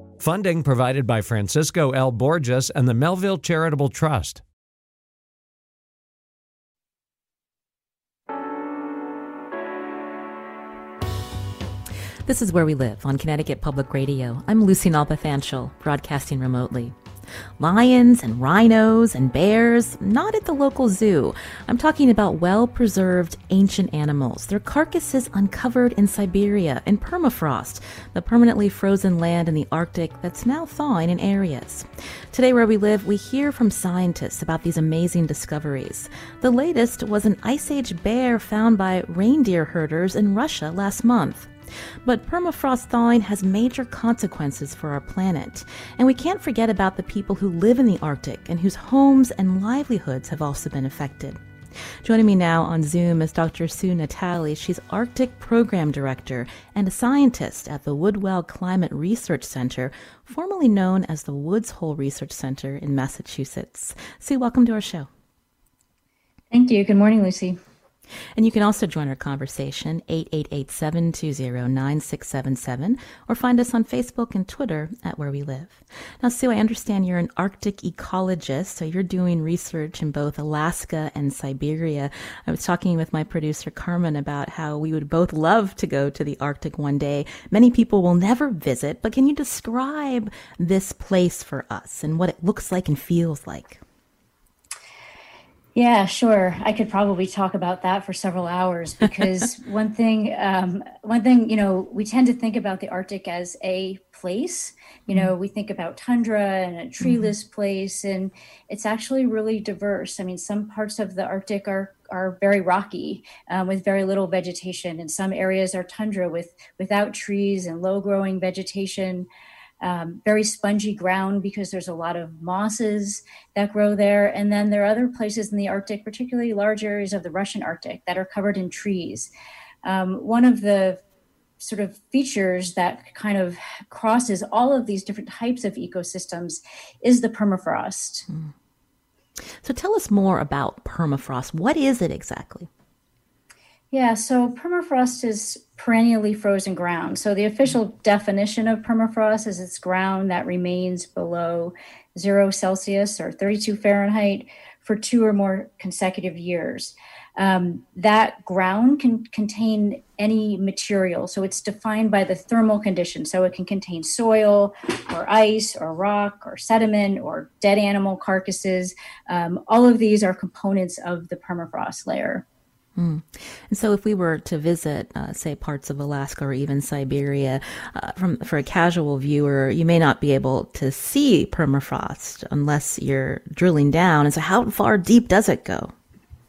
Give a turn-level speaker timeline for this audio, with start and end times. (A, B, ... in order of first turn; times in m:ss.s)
0:00.2-0:04.4 A
0:12.2-0:16.9 B
0:17.6-0:41.5 B
0:42.0-0:51.4 B
0:52.0-1:05.1 B
1:06.5-1:07.6 C
1:08.4-1:33.8 B
1:35.8-1:59.3 C
1:47.0-1:47.3 B
1:59.8-2:09.3 C
2:09.8-2:11.0 C
2:11.6-2:18.3 C
2:19.6-2:22.7 B
2:23.9-2:52.4 C
2:53.0-3:05.9 B